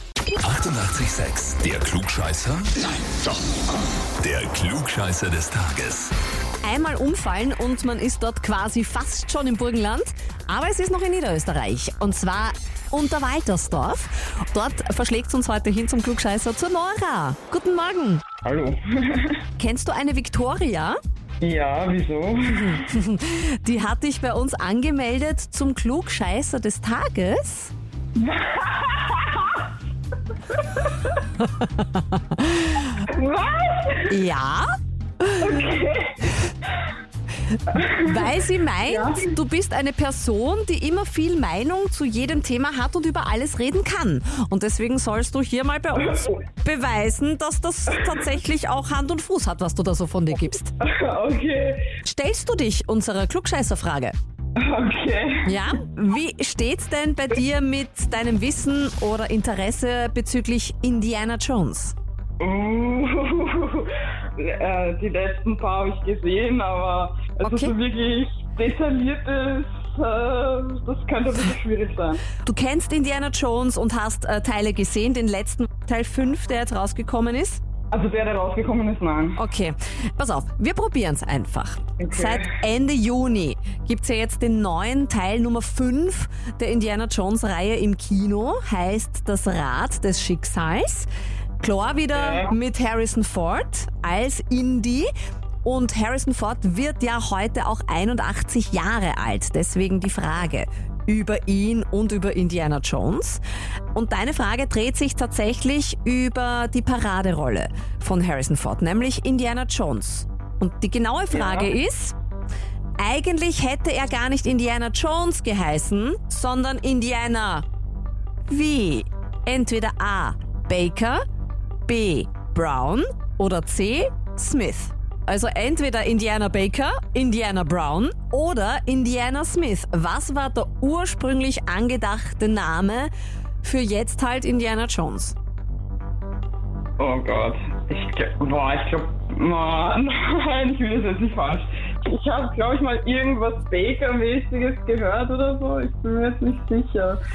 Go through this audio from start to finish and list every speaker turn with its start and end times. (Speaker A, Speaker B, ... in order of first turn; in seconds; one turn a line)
Speaker A: 0.4-2.9
Speaker A: 4.2-6.1
Speaker B: 6.6-18.2
Speaker C: 18.4-19.4
Speaker B: 19.6-21.0
Speaker C: 21.4-22.8
Speaker B: 22.5-27.7
Speaker C: 28.1-29.7
Speaker C: 30.5-31.2
Speaker B: 31.4-33.0
Speaker C: 33.0-34.2
Speaker B: 34.1-34.7
Speaker B: 35.2-35.5
Speaker C: 35.4-36.2
Speaker B: 37.6-50.7
Speaker C: 37.7-39.3
Speaker C: 46.0-46.3
Speaker C: 50.8-51.8
Speaker B: 52.0-54.1
Speaker C: 54.5-55.5
Speaker B: 55.4-61.9
Speaker C: 62.4-72.2
Speaker B: 67.4-67.7
Speaker B: 72.4-77.6
Speaker C: 77.9-79.4
Speaker B: 79.3-91.1
Speaker C: 82.0-82.5
Speaker B: 91.6-95.1
Speaker C: 92.1-92.5
Speaker B: 95.6-103.4
Speaker B: 103.9-112.1
Speaker C: 111.3-111.7
Speaker B: 113.0-117.6
Speaker B: 118.5-121.2
Speaker B: 121.9-133.1
Speaker B: 133.6-135.3
Speaker C: 137.0-147.2